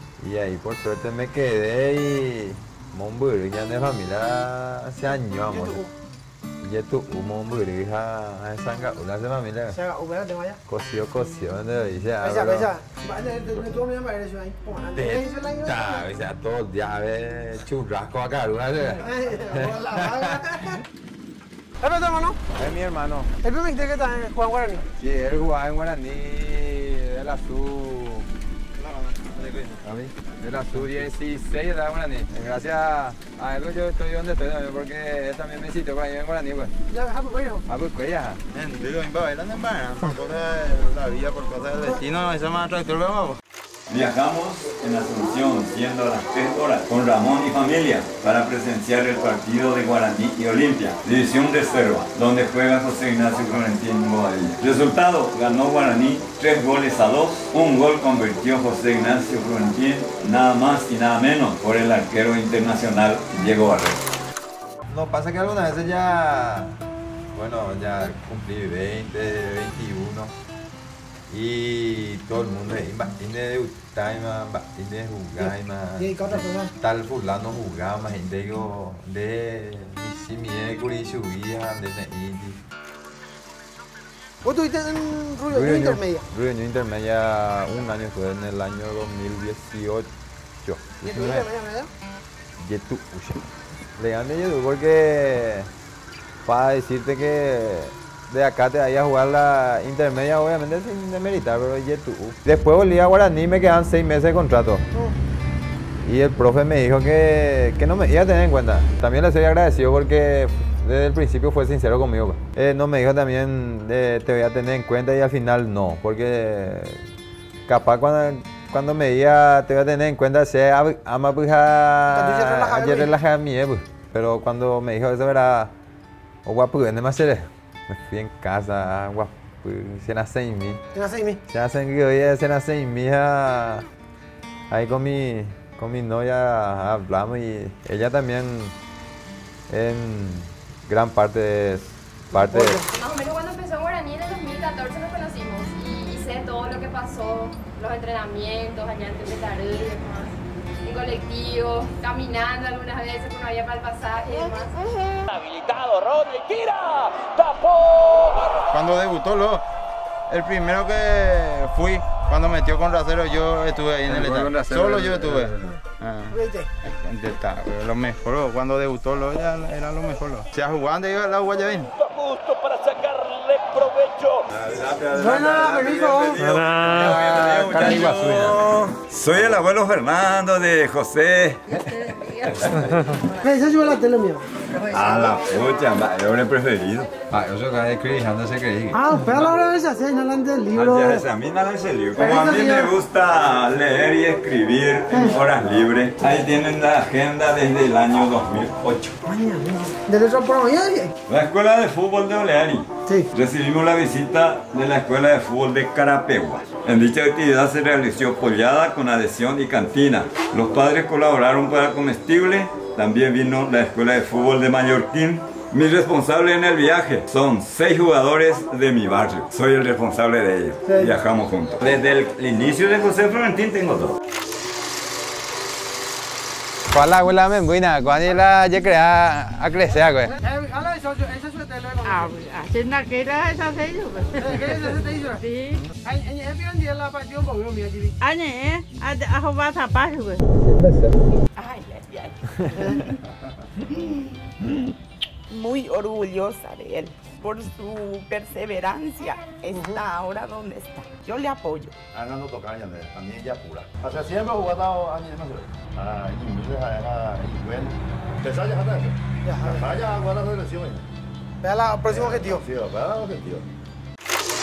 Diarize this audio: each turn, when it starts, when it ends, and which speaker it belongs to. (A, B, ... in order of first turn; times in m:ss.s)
0:00.2-0:05.8 A
0:05.6-0:05.8 B
0:06.6-0:09.8 A
0:09.7-0:10.6 B
0:10.7-0:12.7 A
0:12.2-0:16.0 B
0:14.9-0:20.8 A
0:19.0-0:20.8 B
0:21.8-0:22.4 B
0:22.5-0:23.3 A
0:23.4-0:24.8 B
0:25.0-0:28.3 A
0:28.8-0:30.0 C
0:30.4-0:36.7 A
0:36.9-0:37.6 B
0:37.7-0:38.4 A
0:38.5-0:43.4 C
0:43.9-1:04.0 D
1:04.9-1:06.8 A
1:07.3-1:10.4 A
1:11.3-1:22.6 A
1:15.4-1:16.7 B
1:24.4-1:26.2 B
1:25.5-1:30.1 A
1:30.6-1:31.4 A
1:31.0-1:31.9 B
1:32.6-1:35.7 A
1:36.4-1:44.8 A
1:46.0-1:57.0 A
1:57.7-2:05.7 A
2:02.1-2:03.2 B
2:06.4-2:10.8 A
2:10.9-2:11.4 B
2:11.5-2:13.9 A
2:14.7-2:18.8 A
2:19.7-2:22.8 A
2:22.3-2:23.0 B
2:23.0-2:35.2 E
2:35.3-2:38.6 F
2:38.7-2:39.6 C
2:40.3-2:46.3 C
2:44.0-2:45.7 A
2:46.3-2:46.7 B
2:46.8-2:51.9 C
2:52.0-2:54.4 F
2:54.5-3:03.1 D
2:55.1-2:56.5 B
2:56.5-2:57.4 C
2:56.7-2:58.6 A
3:03.3-3:04.5 B
3:04.8-3:07.1 D
3:07.3-3:09.5 A
3:08.9-3:11.2 B
3:10.7-3:19.2 D
3:12.2-3:12.9 B
3:15.1-3:15.4 B
3:19.2-3:21.1 B
3:21.3-3:44.2 D
3:23.0-3:23.3 B
3:40.9-3:41.1 B
3:46.9-3:50.4 A
3:50.3-3:52.4 B
3:52.0-3:55.9 G
3:54.4-3:55.4 B
3:55.9-3:58.2 B
3:58.2-4:00.4 G
4:00.5-4:01.2 A
4:01.6-4:03.2 H
4:03.9-4:04.3 H
4:05.5-4:11.9 H
4:09.7-4:10.0 B
4:12.1-4:21.0 I
4:19.4-4:19.9 B
4:21.6-4:22.6 B
4:22.1-4:23.7 I